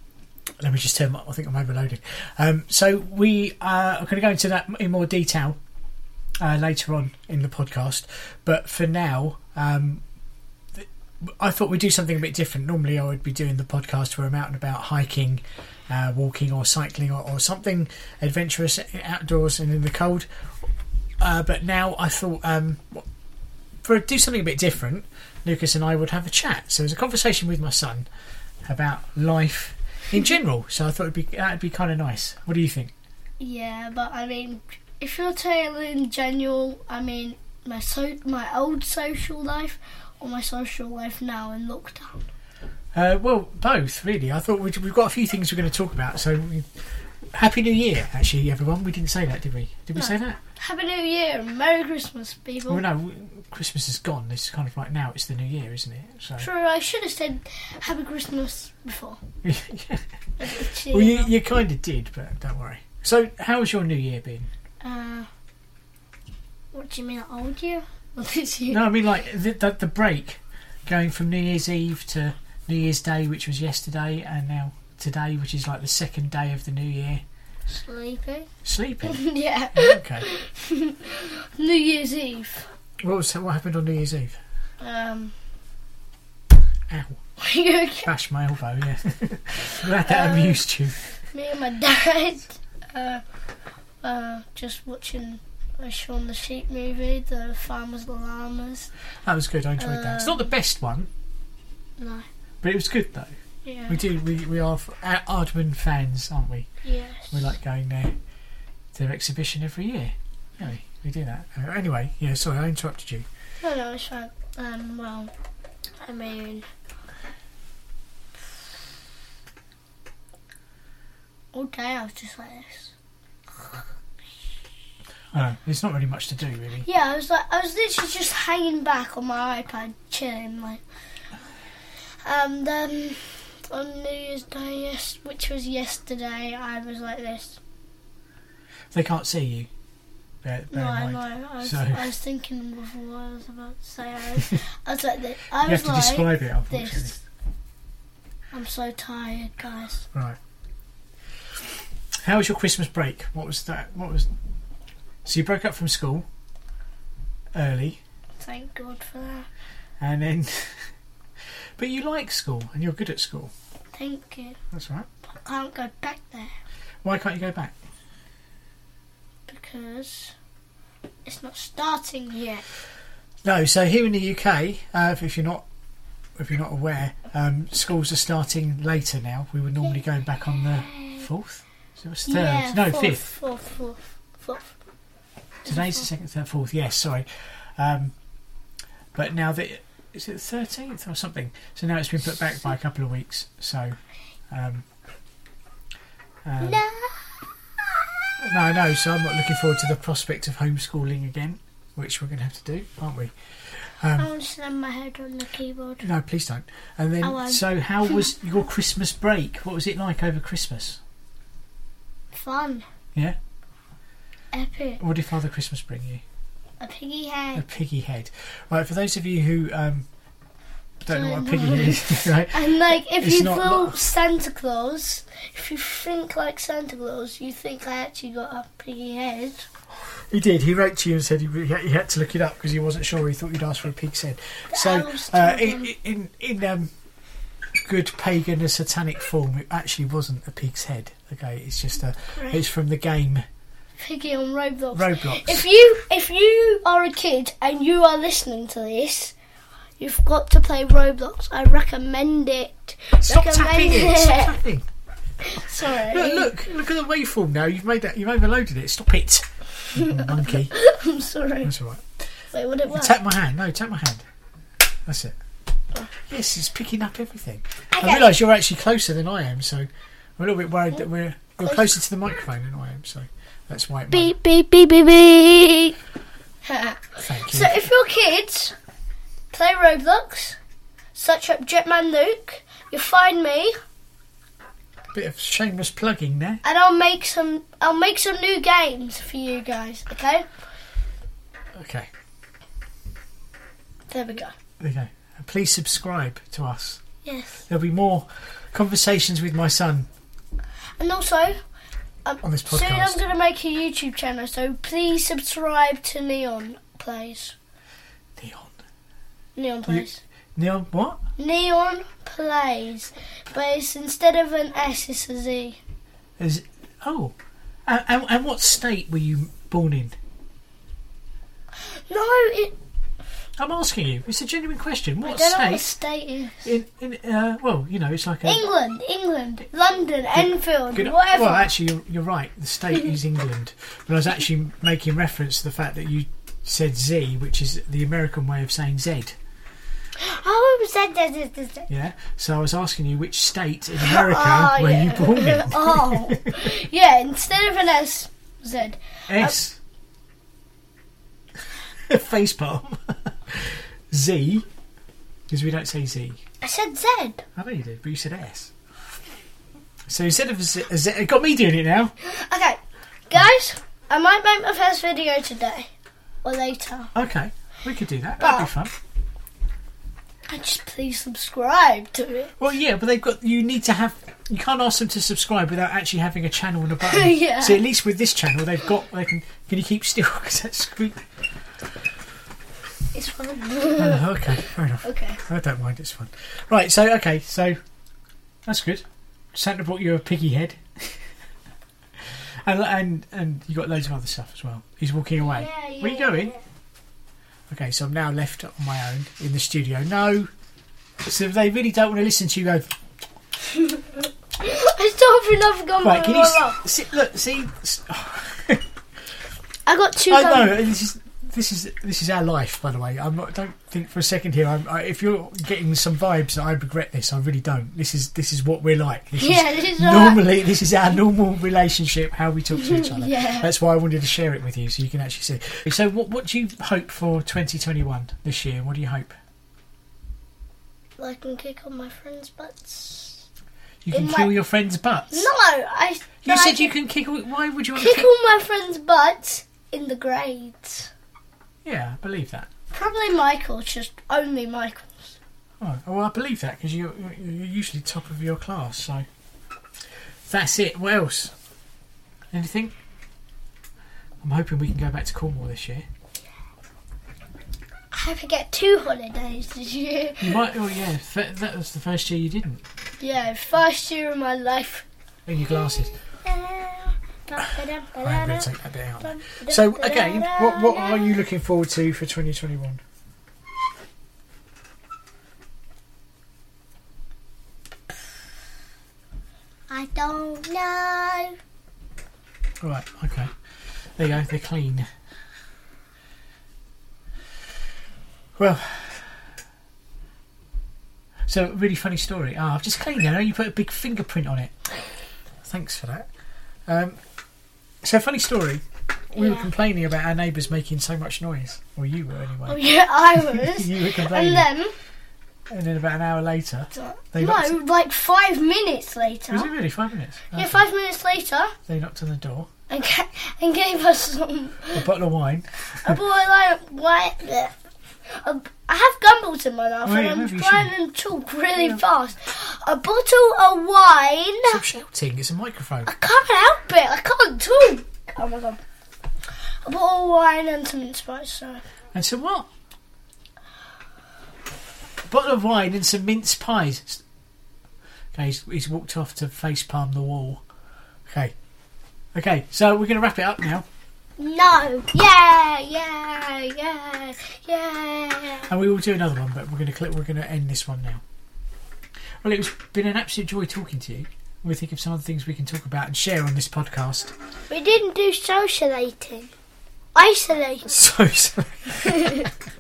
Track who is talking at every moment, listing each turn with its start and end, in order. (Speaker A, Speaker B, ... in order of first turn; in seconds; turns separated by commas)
Speaker A: 0.6-5.6, Speaker A: 6.4-10.0, Speaker A: 10.8-20.3, Speaker A: 21.2-23.1, Speaker A: 23.8-28.1, Speaker A: 28.7-32.9, Speaker B: 33.4-42.3, Speaker A: 42.9-46.7, Speaker A: 47.3-50.4, Speaker B: 50.0-52.8, Speaker A: 52.7-56.5, Speaker B: 56.4-59.2, Speaker A: 59.4-64.5, Speaker B: 60.4-61.4, Speaker B: 64.8-65.3, Speaker B: 66.7-68.9, Speaker A: 68.7-77.2, Speaker B: 77.7-78.5, Speaker A: 78.6-80.3, Speaker B: 79.0-82.7, Speaker A: 83.0-84.4, Speaker B: 84.8-85.3, Speaker A: 86.9-87.2, Speaker B: 87.4-88.1, Speaker A: 88.0-91.2, Speaker B: 89.9-90.6, Speaker B: 91.3-93.2, Speaker B: 94.0-98.9, Speaker A: 99.2-101.1, Speaker B: 99.8-100.5, Speaker B: 102.0-102.3, Speaker A: 102.6-103.3, Speaker B: 103.7-104.0, Speaker A: 103.9-106.7, Speaker B: 106.8-107.4, Speaker A: 107.3-108.2, Speaker A: 108.9-113.3, Speaker B: 113.6-115.3, Speaker B: 116.0-116.7, Speaker B: 121.5-122.9, Speaker A: 125.3-126.9, Speaker B: 126.8-130.8, Speaker B: 132.2-137.6, Speaker A: 138.9-139.7, Speaker A: 140.4-142.1, Speaker B: 140.7-147.2, Speaker A: 145.6-147.1, Speaker B: 148.5-150.1, Speaker A: 152.2-154.3, Speaker A: 155.2-156.3, Speaker A: 157.5-158.0, Speaker B: 158.4-159.5, Speaker A: 160.0-160.9, Speaker A: 161.8-163.5, Speaker B: 163.9-164.6, Speaker A: 164.7-165.1, Speaker B: 165.2-166.6, Speaker A: 167.0-167.8, Speaker B: 169.5-170.3, Speaker B: 171.2-172.6, Speaker A: 173.4-175.7, Speaker A: 176.4-183.3, Speaker B: 180.6-181.3, Speaker B: 182.3-184.8, Speaker B: 185.7-186.1, Speaker A: 185.7-188.1, Speaker A: 189.2-194.0, Speaker A: 194.5-194.8, Speaker A: 196.4-196.8, Speaker B: 196.6-198.1, Speaker A: 198.4-204.3, Speaker B: 204.2-206.1, Speaker A: 206.0-211.0, Speaker B: 207.2-208.2, Speaker B: 212.3-212.8, Speaker B: 214.5-215.0, Speaker A: 215.0-216.2, Speaker B: 216.8-217.7, Speaker A: 217.6-220.1, Speaker A: 221.1-224.0, Speaker B: 221.1-229.7, Speaker A: 229.9-236.9, Speaker B: 234.7-235.9, Speaker A: 237.8-243.4, Speaker B: 242.3-242.6, Speaker B: 244.0-249.3, Speaker A: 244.9-245.7, Speaker B: 250.0-254.6, Speaker A: 253.2-254.9, Speaker B: 255.4-256.5, Speaker A: 255.8-260.7, Speaker B: 259.9-261.7, Speaker A: 261.6-264.2, Speaker B: 262.5-263.2, Speaker A: 265.1-265.4, Speaker A: 266.2-274.4, Speaker B: 267.9-268.4, Speaker B: 271.6-271.9, Speaker B: 274.1-276.0, Speaker B: 276.6-278.8, Speaker A: 277.2-277.9, Speaker B: 279.5-280.6, Speaker B: 281.1-283.7, Speaker A: 285.1-286.6, Speaker B: 286.6-290.5, Speaker A: 291.8-292.1, Speaker B: 294.1-294.6, Speaker A: 294.8-297.0, Speaker B: 297.2-297.6, Speaker A: 297.7-300.1, Speaker B: 301.0-301.6, Speaker B: 302.2-307.6, Speaker A: 302.4-303.2, Speaker A: 308.4-308.8, Speaker B: 309.6-310.2, Speaker A: 309.9-311.2, Speaker B: 311.4-315.8, Speaker A: 316.4-317.4, Speaker A: 317.9-320.1, Speaker B: 321.8-322.8, Speaker A: 323.6-325.8, Speaker B: 325.2-326.7, Speaker A: 326.6-328.6, Speaker B: 328.4-331.7, Speaker A: 330.4-339.4, Speaker B: 340.2-341.9, Speaker A: 341.9-346.6, Speaker B: 344.0-349.6, Speaker A: 349.3-349.8, Speaker A: 352.1-354.6, Speaker A: 355.5-356.4, Speaker B: 356.6-357.5, Speaker A: 357.6-358.7, Speaker A: 360.1-362.1, Speaker B: 362.2-365.9, Speaker B: 366.4-367.1, Speaker A: 367.1-368.9, Speaker B: 368.4-368.7, Speaker B: 370.5-372.5, Speaker A: 372.6-381.2, Speaker B: 377.0-377.9, Speaker B: 383.1-385.4, Speaker A: 384.0-387.8, Speaker A: 388.7-391.2, Speaker A: 392.3-396.5, Speaker B: 395.5-396.6, Speaker A: 397.7-400.5, Speaker A: 401.2-402.9, Speaker B: 403.6-406.8, Speaker A: 406.0-408.8, Speaker B: 409.9-410.8, Speaker A: 410.3-429.3, Speaker B: 419.4-420.5, Speaker B: 422.7-423.7, Speaker B: 431.2-433.5, Speaker A: 434.1-435.5, Speaker B: 434.1-434.5, Speaker B: 435.3-436.9, Speaker A: 436.4-438.3, Speaker B: 437.9-441.1, Speaker A: 441.9-442.7, Speaker B: 442.9-445.4, Speaker A: 445.8-449.3, Speaker A: 450.5-451.5, Speaker A: 452.5-452.9, Speaker A: 454.4-456.1, Speaker B: 458.1-460.7, Speaker A: 460.4-462.8, Speaker B: 463.2-465.1, Speaker A: 465.5-466.1, Speaker B: 466.4-471.4, Speaker A: 468.2-473.0, Speaker B: 479.9-481.6, Speaker A: 482.8-483.5, Speaker A: 484.2-485.1, Speaker A: 488.6-489.4, Speaker A: 491.5-494.7, Speaker A: 495.6-496.3, Speaker A: 496.9-497.2, Speaker A: 498.0-504.7, Speaker B: 499.4-499.7, Speaker B: 502.6-504.9, Speaker A: 505.7-507.8, Speaker B: 506.9-509.7, Speaker A: 509.5-510.9, Speaker B: 510.5-511.8, Speaker A: 511.9-512.7, Speaker B: 512.9-515.1, Speaker A: 514.9-516.2, Speaker B: 516.0-517.8, Speaker B: 518.3-524.8, Speaker A: 520.0-520.9, Speaker A: 524.6-526.1, Speaker B: 526.0-528.8, Speaker B: 529.8-531.8, Speaker A: 532.1-532.7, Speaker A: 535.3-537.2, Speaker A: 538.3-540.6, Speaker A: 541.3-541.5, Speaker A: 542.4-543.9, Speaker B: 544.4-548.7, Speaker A: 548.7-551.2, Speaker A: 552.4-557.3, Speaker B: 557.7-559.5, Speaker B: 560.1-561.0, Speaker A: 560.9-562.5